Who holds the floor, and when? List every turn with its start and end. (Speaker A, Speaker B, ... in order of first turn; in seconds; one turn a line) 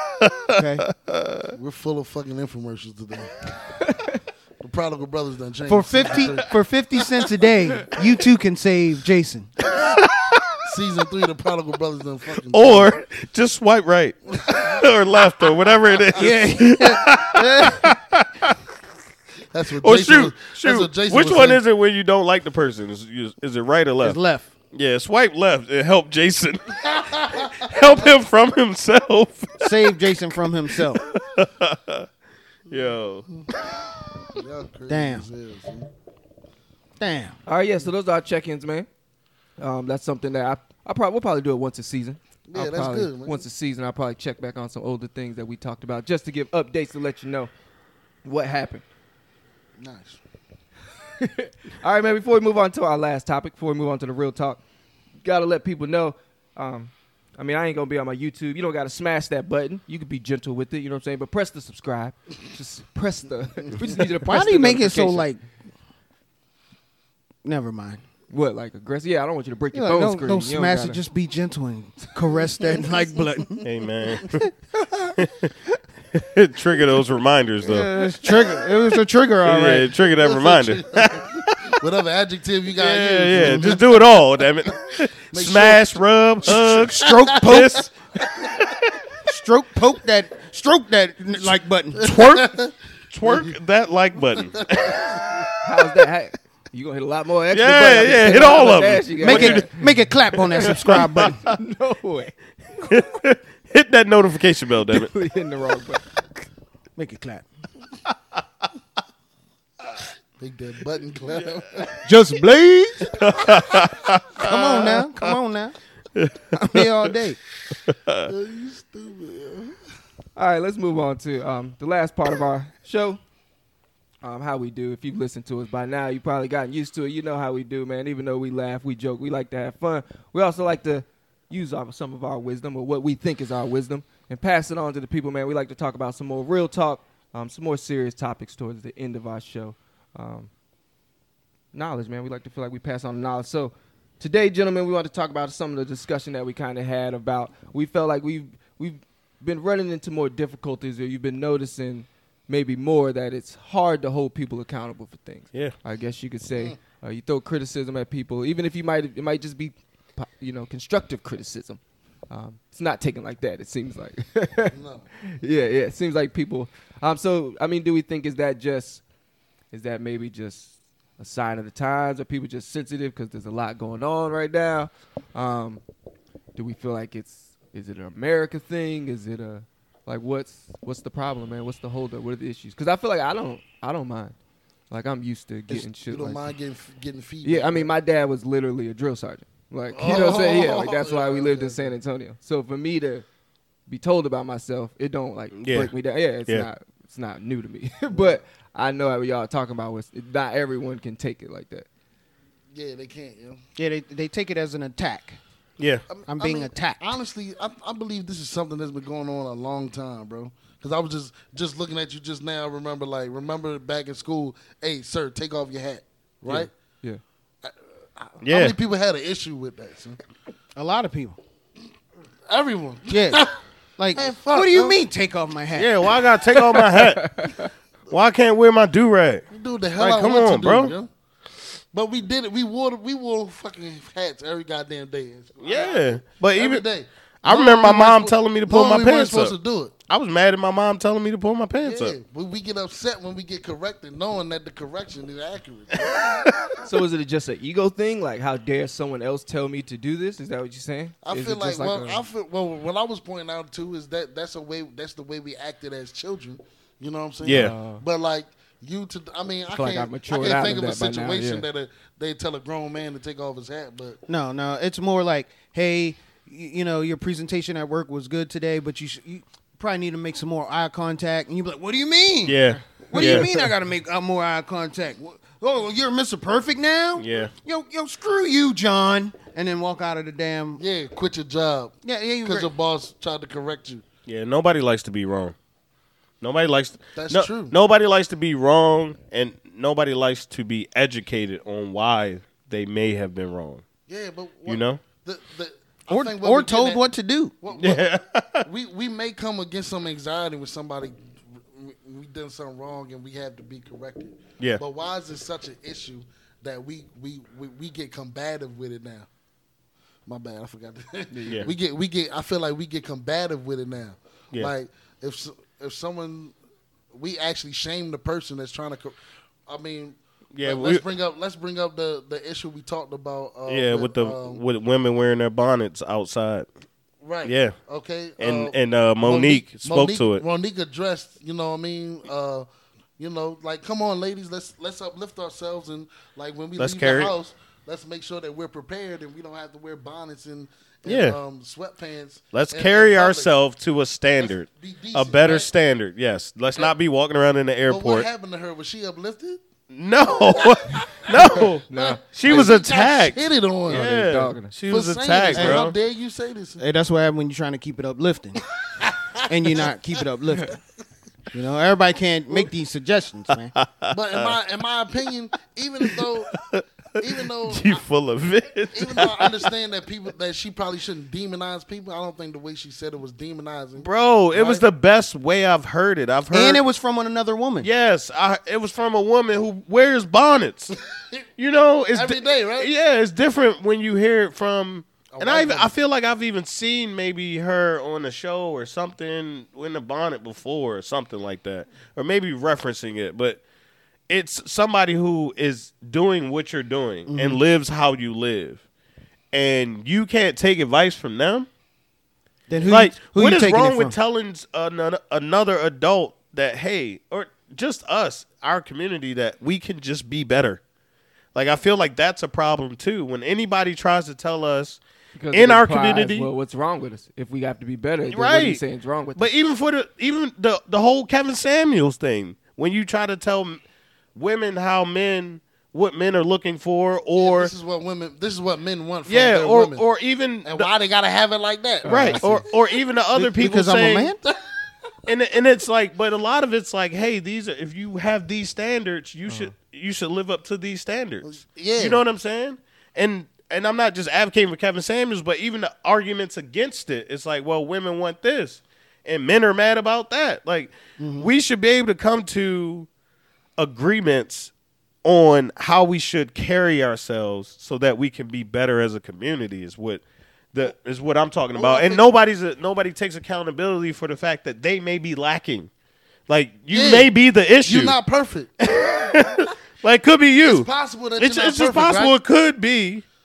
Speaker A: 0.2-1.5
Speaker B: 0.5-0.9
Speaker C: 1.6-3.4
Speaker D: 3.9-4.2
Speaker C: 4.6-6.5
Speaker B: 5.7-9.5
Speaker C: 10.6-12.9
Speaker A: 12.5-18.6
Speaker C: 14.4-14.8
Speaker B: 16.1-17.9
Speaker C: 19.5-21.6
Speaker A: 19.8-24.2
Speaker B: 24.0-24.5
Speaker A: 24.7-29.9
Speaker C: 26.9-27.8
Speaker B: 29.6-31.1
Speaker A: 30.9-32.1
Speaker A: 32.7-33.4
Speaker C: 34.3-35.9
Speaker B: 34.9-35.3
Speaker B: 37.0-37.4
Speaker D: 37.5-38.9
Speaker D: 39.6-47.5
Speaker C: 42.5-43.4
Speaker D: 48.2-48.8
Speaker C: 49.8-50.2
Speaker D: 51.2-54.6
Speaker D: 55.2-65.3
Speaker B: 64.2-65.4
Speaker B: 67.4-68.0
Speaker D: 68.3-71.0
Speaker B: 69.7-73.7
Speaker A: 73.6-74.5
Speaker B: 74.3-75.1
Speaker A: 75.2-75.5
Speaker A: 76.1-77.9
Speaker B: 77.6-79.9
Speaker A: 79.4-81.7
Speaker C: 80.2-84.1
Speaker A: 82.8-87.9
Speaker C: 85.3-87.8
Speaker B: 86.9-87.9
Speaker A: 88.5-88.8
Speaker B: 89.3-92.2
Speaker A: 92.0-92.6
Speaker C: 92.0-92.7
Speaker A: 93.1-95.5
Speaker C: 94.6-95.3
Speaker D: 95.6-99.9
Speaker A: 97.5-99.7
Speaker B: 99.2-101.4
Speaker A: 100.5-101.5
Speaker D: 100.7-102.3
Speaker A: 102.8-105.1
Speaker D: 104.9-106.1
Speaker B: 107.0-107.5
Speaker C: 110.4-112.0
Speaker B: 112.0-113.1
Speaker A: 113.2-115.3
Speaker B: 114.4-115.7
Speaker A: 116.1-117.1
Speaker B: 116.5-117.4
Speaker A: 117.9-118.3
Speaker C: 118.3-119.8
Speaker D: 120.4-123.2
Speaker D: 124.2-140.5
Speaker D: 141.7-169.0
Speaker C: 164.7-165.1
Speaker D: 169.7-175.8
Speaker D: 176.6-184.3
Speaker D: 184.9-186.5
Speaker C: 185.7-187.9
Speaker D: 187.4-193.2
Speaker C: 189.9-191.9
Speaker D: 193.9-201.9
Speaker A: 195.6-195.9
Speaker C: 202.7-203.6
Speaker B: 203.8-205.4
Speaker A: 205.8-206.0
Speaker C: 206.1-216.7
Speaker B: 206.3-207.1
Speaker D: 216.5-217.2
Speaker C: 217.6-220.2
Speaker A: 218.4-218.8
Speaker B: 220.8-221.4
Speaker C: 222.5-223.5
Speaker B: 223.1-223.4
Speaker B: 224.0-226.1
Speaker C: 224.1-225.0
Speaker A: 225.7-227.4
Speaker D: 226.9-227.7
Speaker A: 228.1-229.4
Speaker C: 229.5-231.1
Speaker A: 230.0-230.9
Speaker C: 231.9-239.9
Speaker A: 235.6-236.8
Speaker A: 237.4-239.6
Speaker A: 240.1-242.2
Speaker C: 241.8-246.8
Speaker D: 246.8-252.2
Speaker C: 251.2-264.2
Speaker A: 257.4-257.7
Speaker D: 257.4-258.0
Speaker D: 259.7-261.6
Speaker B: 264.3-280.8
Speaker A: 272.4-273.5
Speaker A: 277.2-277.5
Speaker C: 280.8-284.0
Speaker B: 282.0-282.7
Speaker A: 284.3-285.6
Speaker A: 286.4-293.8
Speaker C: 287.1-287.7
Speaker C: 294.1-297.0
Speaker A: 294.6-295.0
Speaker B: 296.1-297.5
Speaker C: 297.6-298.0
Speaker A: 297.8-298.6
Speaker C: 298.6-301.1
Speaker C: 301.7-309.3
Speaker C: 310.3-316.5
Speaker D: 311.3-311.7
Speaker C: 317.1-319.1
Speaker C: 319.7-324.6
Speaker A: 320.5-321.0
Speaker A: 323.7-326.6
Speaker C: 327.2-332.7
Speaker A: 327.4-327.8
Speaker A: 328.4-330.4
Speaker C: 333.2-343.5
Speaker A: 336.8-337.3
Speaker A: 341.1-341.4
Speaker A: 342.5-348.3
Speaker C: 344.4-345.7
Speaker C: 347.9-349.6
Speaker A: 349.9-355.9
Speaker C: 350.4-354.1
Speaker D: 351.9-352.2
Speaker D: 353.9-354.7
Speaker C: 354.9-356.8
Speaker B: 355.6-355.9
Speaker B: 356.8-358.6
Speaker B: 359.5-360.8
Speaker B: 361.5-363.7
Speaker A: 363.7-364.6
Speaker C: 364.1-366.5
Speaker A: 366.1-366.8
Speaker C: 367.2-368.0
Speaker A: 367.4-369.7
Speaker C: 368.9-374.8
Speaker A: 374.0-376.8
Speaker B: 376.5-377.9
Speaker A: 377.8-380.9
Speaker A: 381.6-393.6
Speaker C: 382.1-382.9
Speaker C: 385.3-385.9
Speaker A: 394.3-398.8
Speaker B: 397.3-397.6
Speaker A: 399.5-401.7
Speaker C: 402.7-403.0
Speaker B: 402.7-404.1
Speaker A: 402.9-410.8
Speaker A: 411.6-415.0
Speaker D: 415.4-419.5
Speaker A: 415.5-416.5
Speaker A: 418.3-418.8
Speaker A: 419.4-423.8
Speaker A: 424.3-427.7
Speaker C: 427.4-430.0
Speaker A: 429.3-430.9
Speaker C: 430.6-432.8
Speaker D: 432.0-432.6
Speaker A: 432.1-434.3
Speaker B: 433.5-434.4
Speaker A: 435.3-453.1
Speaker D: 439.5-439.7
Speaker C: 441.4-442.2
Speaker B: 451.2-451.5
Speaker A: 453.8-454.7
Speaker A: 455.2-460.2
Speaker A: 460.7-465.9
Speaker C: 461.8-462.2
Speaker A: 466.5-468.2
Speaker C: 466.9-467.3
Speaker C: 467.9-468.7
Speaker A: 468.8-470.9
Speaker C: 470.6-472.3
Speaker A: 471.4-473.2